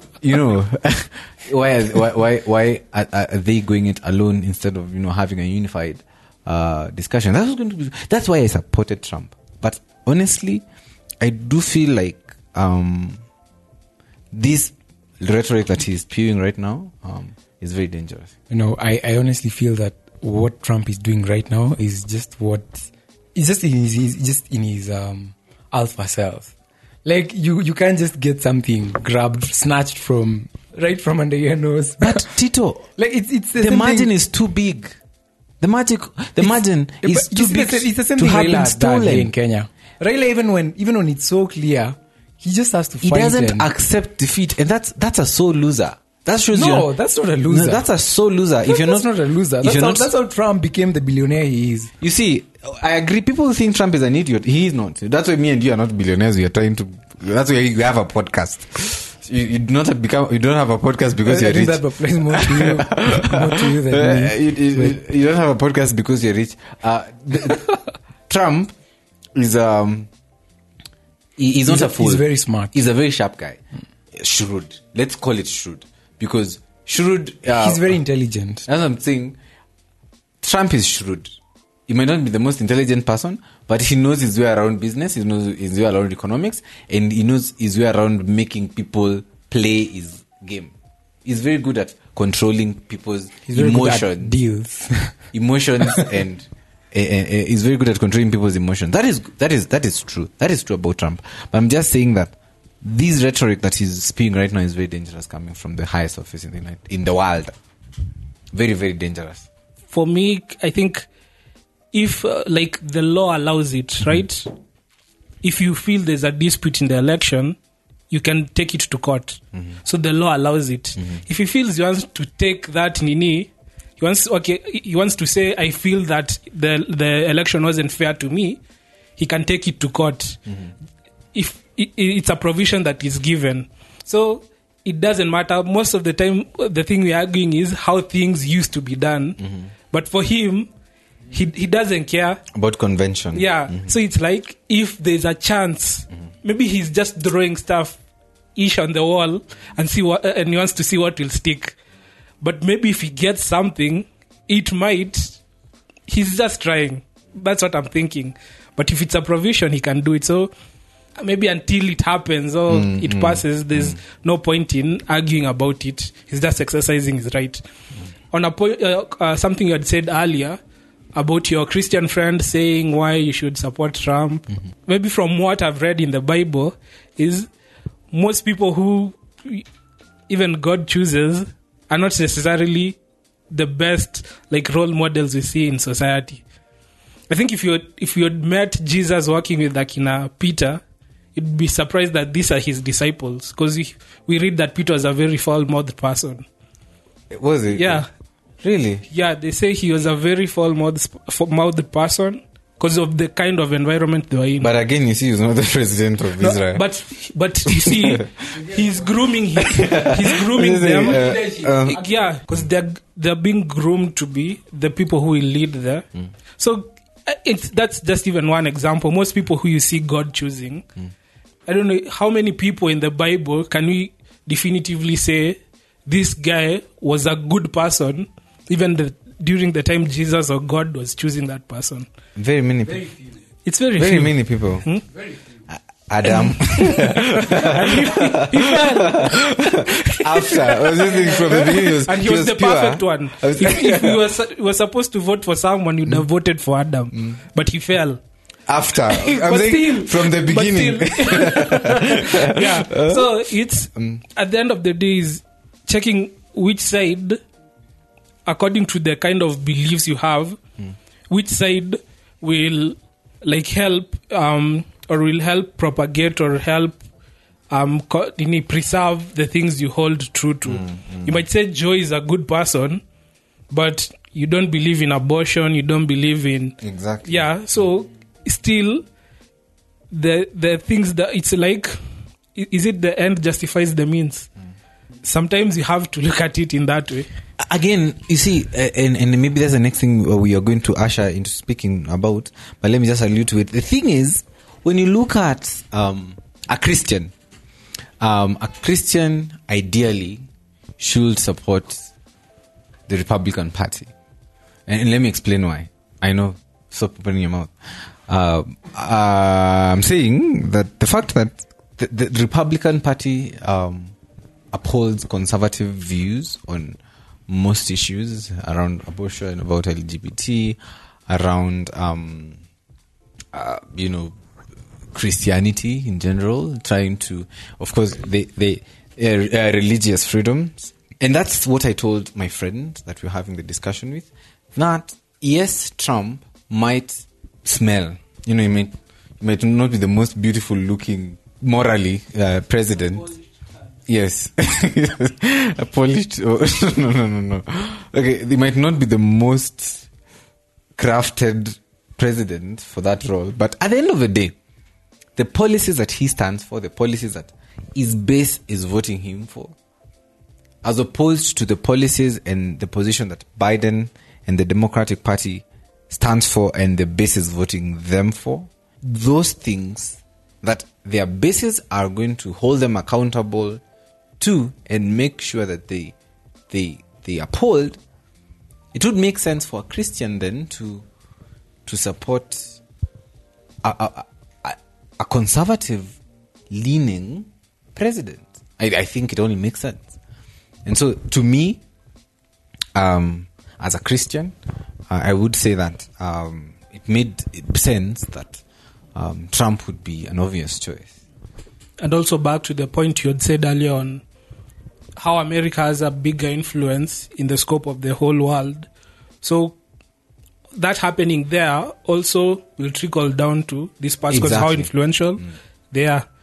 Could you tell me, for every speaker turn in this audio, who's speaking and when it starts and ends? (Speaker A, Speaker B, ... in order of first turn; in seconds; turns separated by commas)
Speaker A: 0.2-10.6, Speaker A: 11.2-13.2, Speaker A: 14.3-18.3, Speaker B: 18.5-26.5, Speaker B: 27.0-32.3, Speaker A: 32.0-32.9, Speaker B: 33.0-34.1, Speaker A: 33.6-35.0, Speaker A: 35.6-39.3, Speaker B: 36.4-43.7, Speaker A: 43.0-46.9, Speaker B: 46.5-47.9, Speaker A: 47.5-49.1, Speaker B: 48.6-51.9, Speaker A: 49.6-50.1, Speaker A: 52.0-67.7, Speaker B: 61.2-65.0, Speaker A: 68.3-68.7, Speaker A: 69.3-70.1, Speaker A: 71.4-73.6, Speaker B: 71.7-72.8, Speaker A: 74.1-77.9, Speaker B: 77.5-78.7, Speaker A: 78.7-79.4, Speaker A: 80.4-81.3, Speaker A: 81.9-90.7, Speaker A: 91.2-94.3, Speaker B: 93.5-95.2, Speaker A: 95.3-107.5, Speaker A: 108.5-109.5, Speaker C: 109.9-111.1, Speaker C: 111.9-114.5, Speaker C: 115.4-117.6, Speaker C: 118.1-128.6, Speaker C: 129.2-130.4, Speaker C: 131.3-140.7, Speaker A: 139.4-139.7, Speaker C: 141.3-142.4, Speaker A: 142.5-143.9, Speaker C: 143.3-148.0, Speaker C: 148.6-151.7, Speaker C: 152.4-155.4, Speaker C: 156.1-160.5, Speaker C: 161.2-167.6, Speaker A: 162.7-164.0, Speaker C: 168.3-170.6, Speaker C: 171.1-177.5, Speaker C: 178.1-179.7, Speaker C: 180.3-183.0, Speaker C: 183.5-186.4, Speaker C: 187.3-190.8, Speaker C: 191.3-196.4, Speaker A: 197.3-198.0, Speaker C: 197.7-198.1, Speaker A: 198.6-199.0, Speaker C: 199.1-204.7, Speaker A: 204.6-206.8, Speaker C: 206.4-216.1, Speaker A: 207.7-208.2, Speaker A: 209.7-212.0, Speaker C: 216.6-220.9, Speaker C: 221.7-232.1, Speaker A: 232.3-233.1, Speaker C: 233.6-235.1, Speaker A: 234.0-234.8, Speaker A: 235.7-244.2, Speaker C: 236.3-248.2, Speaker A: 248.7-253.2, Speaker C: 249.0-257.4, Speaker C: 258.4-260.6, Speaker C: 261.3-267.0, Speaker C: 267.7-273.0, Speaker A: 270.7-271.4, Speaker C: 273.7-279.0, Speaker A: 276.8-277.4, Speaker C: 280.1-282.0, Speaker C: 282.5-284.5, Speaker C: 285.2-287.3, Speaker A: 287.6-297.3, Speaker A: 298.2-300.4, Speaker A: 301.0-302.1, Speaker A: 303.1-304.1, Speaker A: 304.9-307.7, Speaker A: 308.3-314.1, Speaker A: 314.7-322.6, Speaker A: 323.5-324.3, Speaker A: 325.1-343.3, Speaker A: 344.1-350.1, Speaker A: 351.0-354.5, Speaker A: 355.4-359.7, Speaker A: 360.8-373.8, Speaker A: 374.4-376.1, Speaker A: 376.7-378.0, Speaker A: 378.9-381.0, Speaker A: 381.9-382.8, Speaker A: 383.8-386.2, Speaker A: 386.7-390.2, Speaker A: 390.9-391.8, Speaker A: 392.9-394.5, Speaker A: 395.1-398.6, Speaker A: 399.1-401.1, Speaker C: 402.0-404.2, Speaker C: 405.1-408.9, Speaker C: 409.4-409.8, Speaker C: 410.7-416.2, Speaker A: 414.3-414.9